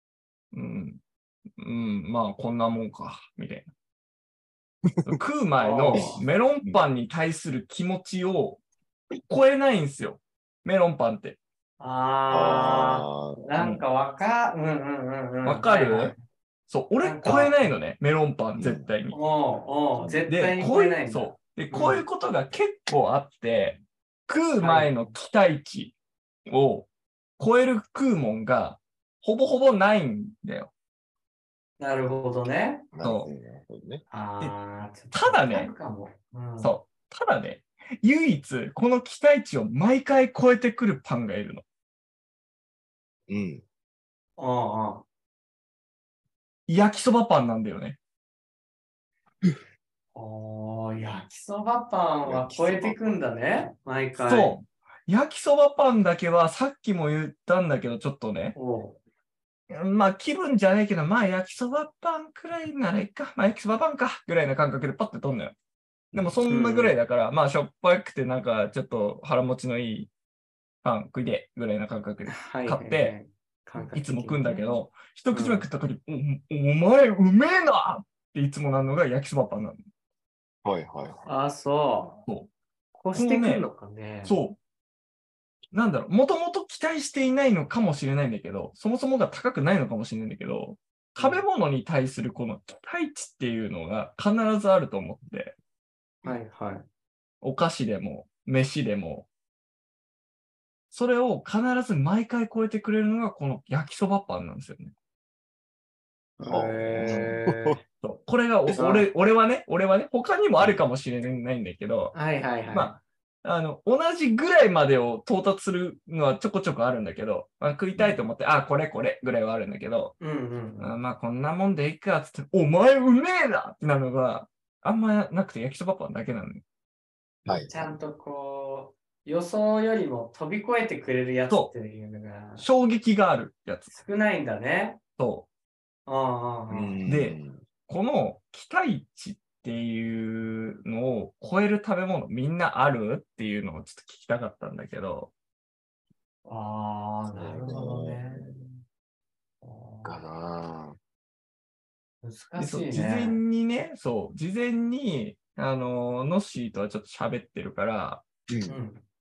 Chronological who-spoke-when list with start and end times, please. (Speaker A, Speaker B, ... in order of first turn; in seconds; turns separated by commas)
Speaker A: 0.5-1.0, Speaker A: 1.6-3.7, Speaker B: 4.9-5.2, Speaker A: 5.0-8.6, Speaker C: 5.6-6.2, Speaker B: 5.9-6.8, Speaker A: 9.3-11.4, Speaker C: 11.8-16.2, Speaker B: 12.3-13.4, Speaker A: 13.6-13.8, Speaker A: 15.4-16.1, Speaker A: 16.7-19.2, Speaker C: 17.0-17.7, Speaker B: 18.6-18.9, Speaker C: 19.1-22.0, Speaker A: 20.3-25.9, Speaker C: 24.6-25.1, Speaker A: 26.5-26.9, Speaker A: 27.4-30.7, Speaker C: 31.8-32.9, Speaker B: 32.9-34.0, Speaker A: 33.0-33.3, Speaker C: 34.1-36.7, Speaker A: 35.1-35.7, Speaker A: 36.6-41.6, Speaker B: 43.3-43.6, Speaker C: 44.4-45.0, Speaker A: 46.7-48.0, Speaker C: 50.1-54.6, Speaker B: 52.2-53.0, Speaker A: 54.2-58.5, Speaker C: 58.5-59.0, Speaker A: 59.7-65.5, Speaker A: 66.1-70.1, Speaker C: 66.5-66.9, Speaker A: 70.8-73.1, Speaker C: 72.3-74.8, Speaker A: 73.8-79.8, Speaker C: 75.3-75.7, Speaker B: 80.6-81.2, Speaker C: 81.2-82.2, Speaker C: 82.9-84.4, Speaker A: 83.1-83.6, Speaker A: 84.2-84.6, Speaker A: 85.7-95.5, Speaker C: 91.2-91.4, Speaker C: 96.2-96.8, Speaker A: 97.4-99.3, Speaker A: 100.9-104.9, Speaker C: 106.4-107.8, Speaker B: 106.4-107.8, Speaker A: 108.0-112.1, Speaker C: 108.7-109.1, Speaker C: 112.1-113.0, Speaker A: 112.7-120.2, Speaker C: 120.2-121.0, Speaker A: 120.8-126.6, Speaker B: 127.5-127.9, Speaker C: 127.5-132.7, Speaker A: 132.6-133.9, Speaker C: 133.9-135.0, Speaker A: 135.2-135.5, Speaker C: 136.1-137.0, Speaker B: 136.7-137.6, Speaker A: 137.1-137.4, Speaker A: 137.9-145.3, Speaker C: 146.4-148.8, Speaker B: 147.3-148.5, Speaker C: 149.6-150.2, Speaker B: 150.0-151.0, Speaker C: 152.2-153.4, Speaker A: 152.6-158.2, Speaker B: 158.5-158.8, Speaker C: 158.7-159.0